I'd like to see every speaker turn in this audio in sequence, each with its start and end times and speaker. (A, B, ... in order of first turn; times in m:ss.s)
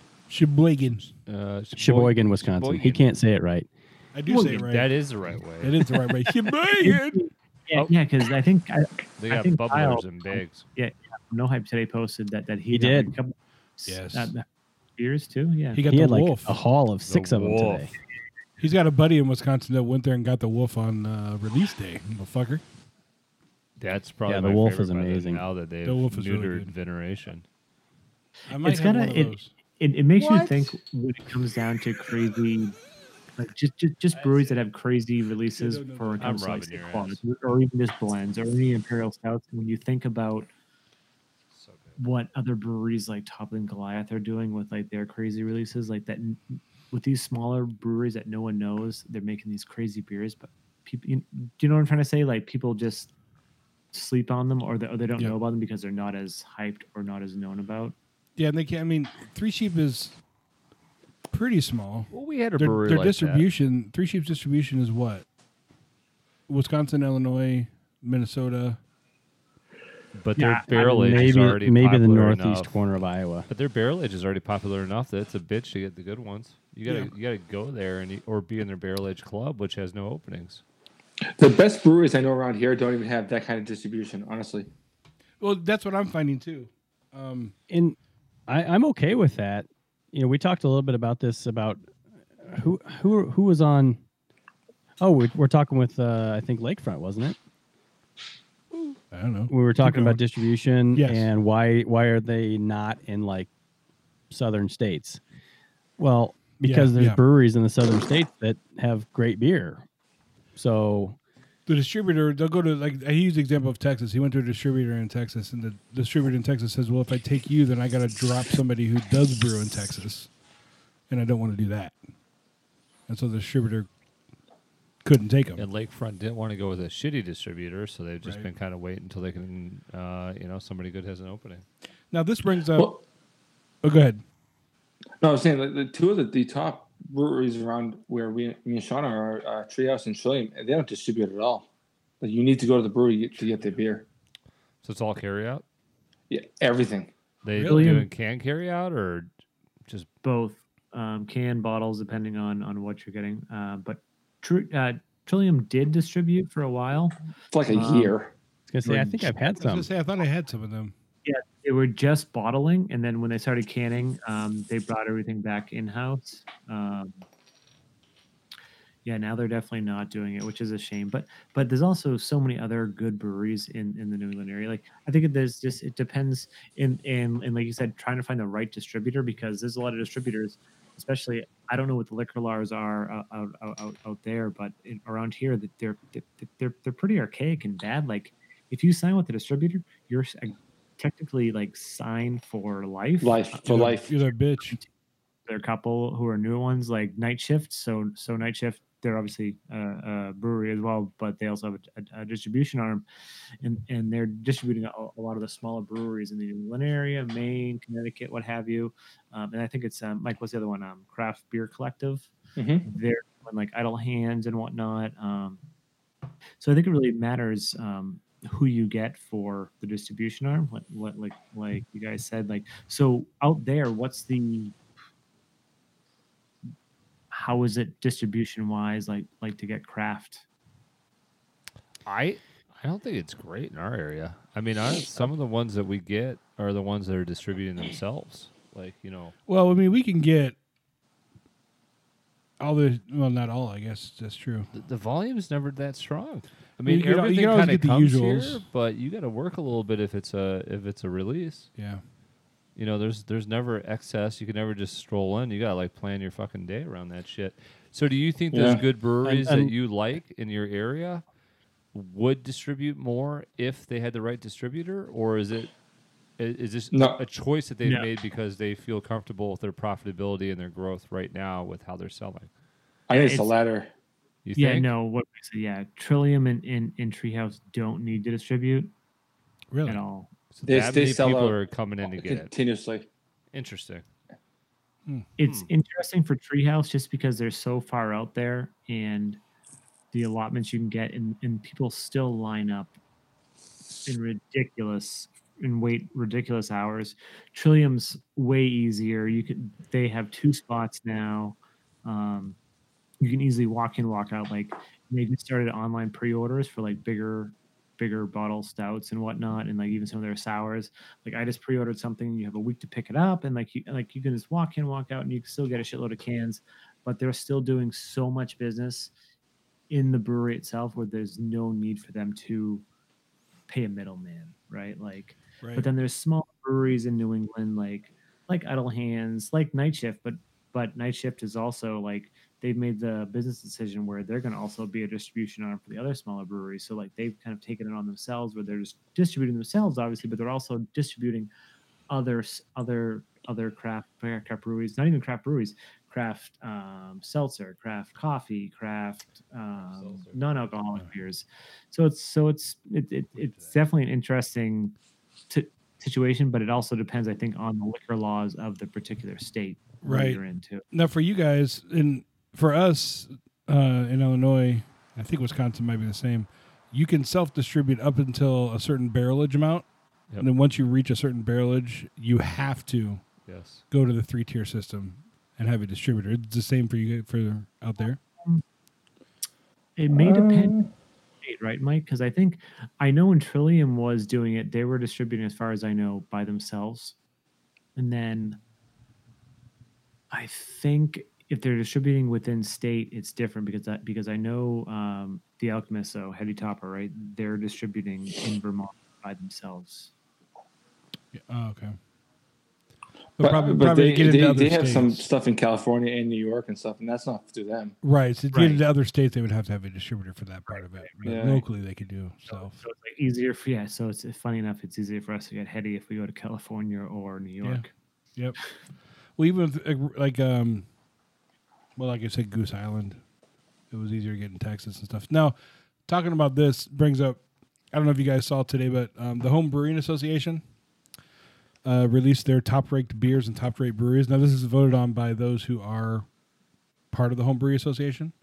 0:00.3-0:01.1 A
0:01.2-0:03.1 B
0:01.8-0:03.7 C
0:04.1-0:04.9 A
0:04.3-0:04.6 D
0:04.4-0:05.9 B
0:05.6-0:07.2 A
0:06.8-0:14.4 D
0:09.2-0:10.6 B
0:12.7-0:13.1 C
0:13.8-0:14.3 A
0:15.0-0:15.8 D
0:15.7-0:16.6 A
0:15.9-0:17.9 C
0:17.1-0:17.9 B
0:18.6-0:22.6 A
0:23.8-0:27.4 B
0:24.3-0:25.4 C
0:25.8-0:26.7 A
0:28.5-0:29.5 A
0:28.6-0:32.8 D
0:30.2-0:30.5 B
0:33.4-0:40.5 D
0:34.1-0:34.6 B
0:35.5-0:36.5 A
0:36.2-0:37.2 B
0:41.5-0:42.0 B
0:42.0-0:53.1 D
0:53.9-0:57.9 D
0:58.4-1:00.2 A
1:01.3-1:05.2 A
1:02.1-1:03.4 B
1:06.5-1:08.8 A
1:10.2-1:12.7 B
1:10.4-1:11.2 D
1:10.7-1:13.5 C
1:13.5-1:20.6 B
1:16.8-1:17.1 A
1:21.4-1:24.7 E
1:25.4-1:27.5 A
1:27.7-1:31.8 C
1:32.4-1:34.0 C
1:35.0-1:37.4 C
1:39.1-1:40.2 A
1:39.5-1:43.5 C
1:40.9-1:41.3 A
1:44.3-1:45.2 C
1:46.0-1:49.8 C
1:46.6-1:47.2 A
1:50.6-1:51.2 C
1:51.7-2:00.3 A
2:01.1-2:02.0 A
2:03.1-2:03.9 A
2:05.0-2:05.6 A
2:05.6-2:11.6 B
2:12.1-2:12.9 A
2:12.7-2:13.0 E
2:13.8-2:14.2 A
2:15.2-2:21.6 E
2:22.2-2:24.0 E
2:24.8-2:25.6 B
2:26.3-2:27.1 E
2:27.4-2:29.3 B
2:27.5-2:28.1 A
2:27.6-2:28.1 D
2:30.2-2:37.2 D
2:37.5-2:38.3 E
2:37.7-2:38.2 D
2:38.7-2:39.9 C
2:38.8-2:39.3 D
2:39.5-2:40.9 A
2:41.2-2:47.1 D
2:49.0-3:13.9 D
3:13.2-3:14.1 E
3:13.6-3:14.8 A
3:15.5-3:23.0 D
3:23.6-3:32.3 D
3:32.6-3:32.9 E
3:32.8-3:35.6 D
3:36.6-3:44.7 D
3:47.3-3:50.4 D
3:52.0-3:59.4 B
3:59.5-4:00.6 A
4:02.6-4:04.7 A
4:04.7-4:11.7 B
4:06.8-4:08.6 A
4:12.8-4:21.2 B
4:18.5-4:18.8 E
4:19.2-4:19.7 C
4:21.9-4:25.7 B
4:26.4-4:32.5 B
4:26.9-4:27.2 E
4:33.1-4:33.9 E
4:33.1-4:33.5 D
4:34.4-4:34.9 B
4:34.6-4:38.9 D
4:39.7-4:40.0 A
4:39.8-4:40.3 D
4:40.5-4:42.5 B
4:40.6-4:43.0 E
4:43.5-4:44.0 B
4:45.4-4:49.4 D
4:45.4-4:45.7 B
4:50.1-4:52.9 D
4:54.0-5:02.6 D
5:03.2-5:19.1 D
5:19.9-5:22.8 D
5:23.7-5:41.5 D
5:25.6-5:25.9 A
5:42.1-5:55.0 D
5:49.7-5:50.8 B
5:53.4-5:53.7 B
5:55.5-6:00.8 D
6:00.0-6:00.4 A
6:00.9-6:09.8 A
6:10.4-6:13.2 A
6:13.5-6:13.8 B
6:13.9-6:18.2 A
6:20.0-6:20.7 D
6:20.1-6:20.9 E
6:21.4-6:27.1 D
6:28.0-6:28.6 D
6:30.3-6:40.1 D
6:41.3-6:42.0 A
6:43.4-6:45.2 A
6:43.4-6:48.0 E
6:48.0-6:52.8 A
6:48.5-6:48.8 D
6:51.2-6:51.6 E
6:52.5-6:57.9 D
6:59.4-7:00.8 A
7:02.0-7:03.2 A
7:03.9-7:05.5 A
7:06.1-7:07.4 A
7:07.9-7:10.6 A
7:11.8-7:16.2 A
7:17.1-7:18.3 A